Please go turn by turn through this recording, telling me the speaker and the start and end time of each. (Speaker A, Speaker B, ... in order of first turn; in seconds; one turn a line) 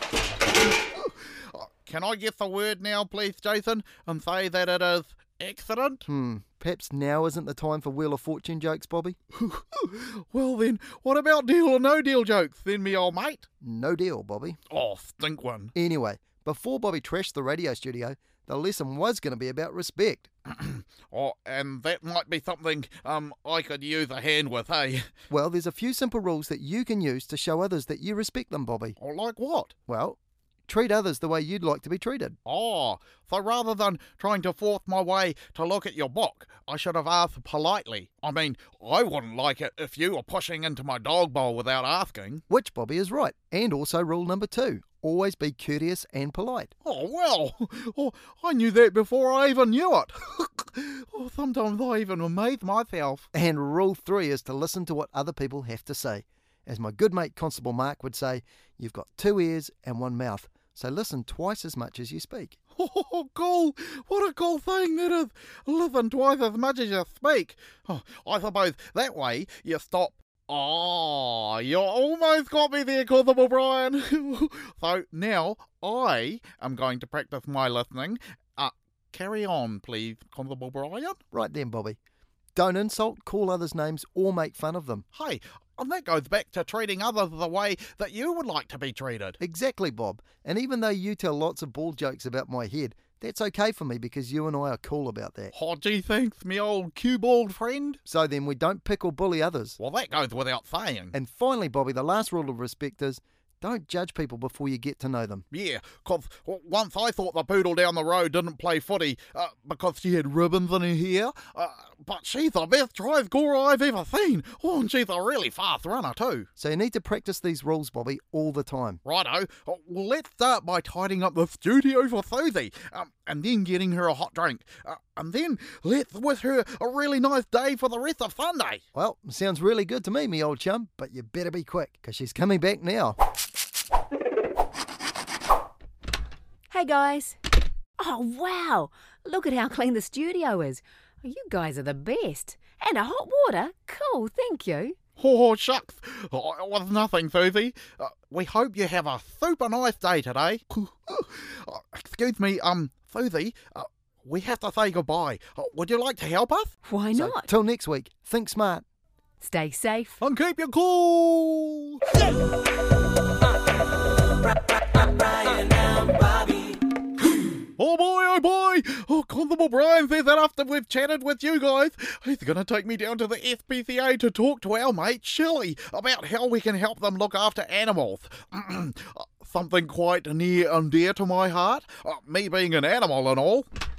Speaker A: 0.9-6.0
Speaker B: 6.1-9.2
Speaker A: 9.3-13.4
Speaker B: 13.6-14.6
Speaker A: 14.7-15.7
Speaker B: 15.8-20.3
Speaker A: 20.5-25.1
Speaker B: 25.3-29.0
Speaker A: 29.0-29.7
Speaker B: 29.9-32.4
Speaker A: 32.5-42.4
Speaker B: 42.5-46.7
Speaker A: 46.8-53.3
Speaker B: 53.3-62.6
Speaker A: 62.8-81.2
Speaker B: 81.3-82.0
Speaker B: 82.6-85.0
Speaker A: 85.1-89.4
Speaker B: 89.4-95.5
Speaker A: 95.5-98.0
Speaker B: 98.1-99.8
Speaker A: 99.8-101.2
Speaker B: 101.1-105.5
Speaker A: 105.5-116.5
Speaker B: 116.6-119.0
Speaker A: 119.0-128.8
Speaker B: 128.9-133.2
Speaker C: 136.7-137.4
Speaker C: 138.0-144.9
Speaker A: 145.2-156.7
Speaker C: 156.8-157.5
Speaker B: 157.1-158.8
Speaker C: 159.4-160.2
Speaker A: 160.2-162.0
Speaker A: 167.8-183.7